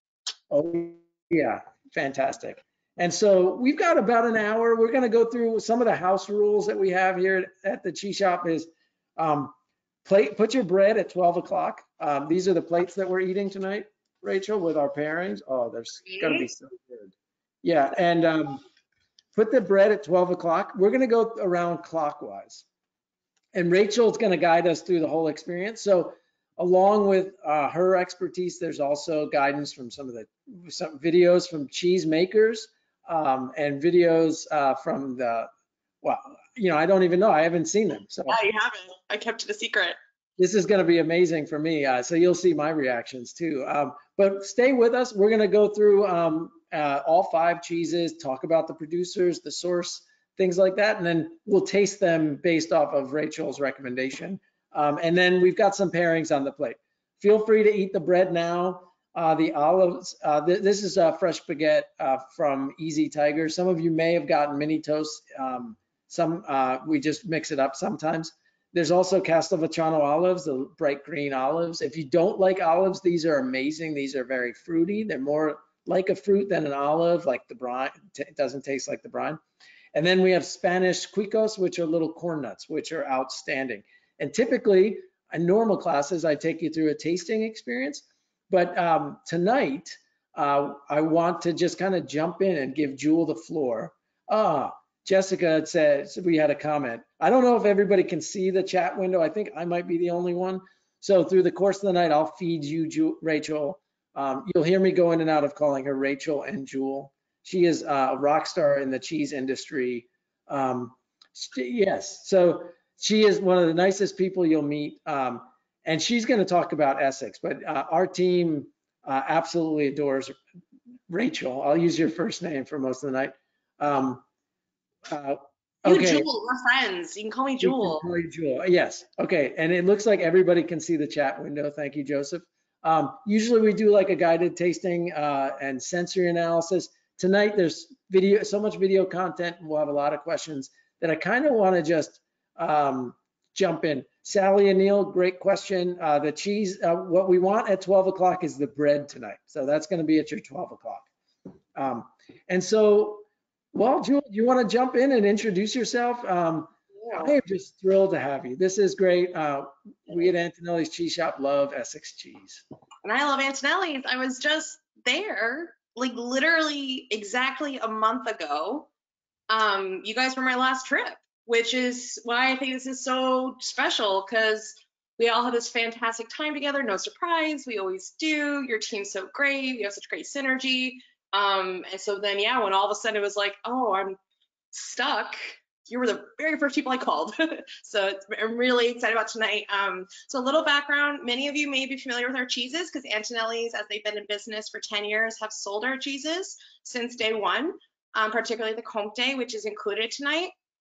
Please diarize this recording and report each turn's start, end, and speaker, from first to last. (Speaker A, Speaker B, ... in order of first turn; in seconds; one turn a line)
Speaker A: 0.5-18.6
Speaker B: 16.1-16.5
Speaker A: 19.3-22.6
Speaker A: 23.5-35.5
Speaker A: 36.0-38.4
Speaker B: 38.3-40.0
Speaker A: 40.4-79.4
Speaker A: 79.9-120.4
Speaker A: 121.1-124.2
Speaker A: 125.1-126.3
Speaker B: 125.8-128.0
Speaker A: 127.6-151.1
Speaker A: 151.7-162.6
Speaker B: 157.0-157.3
Speaker B: 163.0-168.9
Speaker B: 169.5-184.2
Speaker B: 184.7-200.5